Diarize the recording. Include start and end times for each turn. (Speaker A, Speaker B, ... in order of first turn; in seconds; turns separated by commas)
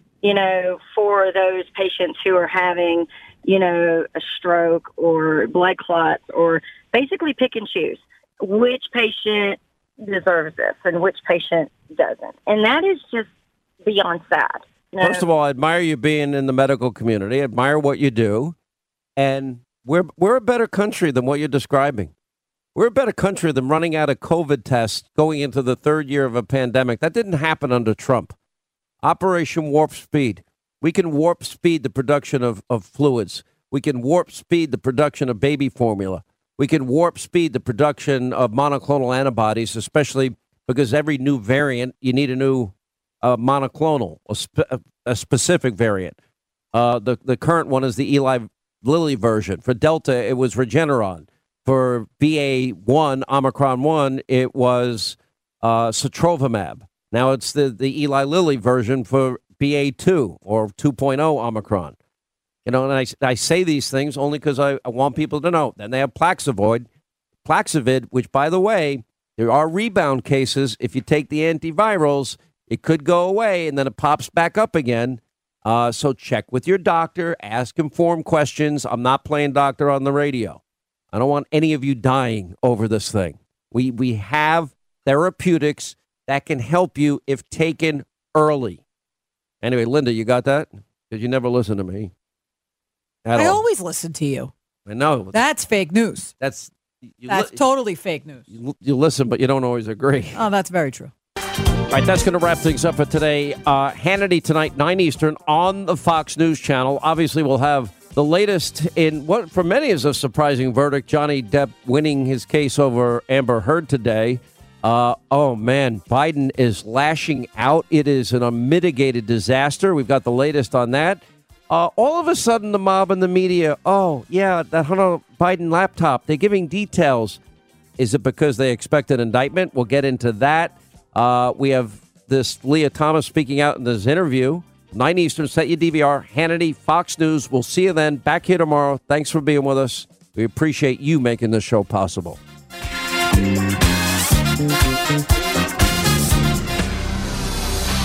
Speaker A: 0.2-13.3, Speaker A: 13.8-15.2, Speaker B: 15.0-18.6, Speaker B: 19.2-22.1, Speaker B: 22.7-28.3, Speaker B: 29.0-46.1, Speaker B: 46.7-62.0, Speaker B: 62.6-66.9, Speaker B: 67.4-80.6, Speaker B: 81.1-88.8, Speaker B: 89.6-92.1, Speaker B: 93.2-93.6, Speaker C: 93.3-94.5, Speaker B: 94.9-95.4, Speaker C: 95.3-96.3, Speaker B: 96.4-97.6, Speaker C: 97.3-98.4, Speaker B: 98.5-100.4, Speaker C: 100.3-101.1, Speaker B: 101.9-127.4, Speaker B: 128.0-142.4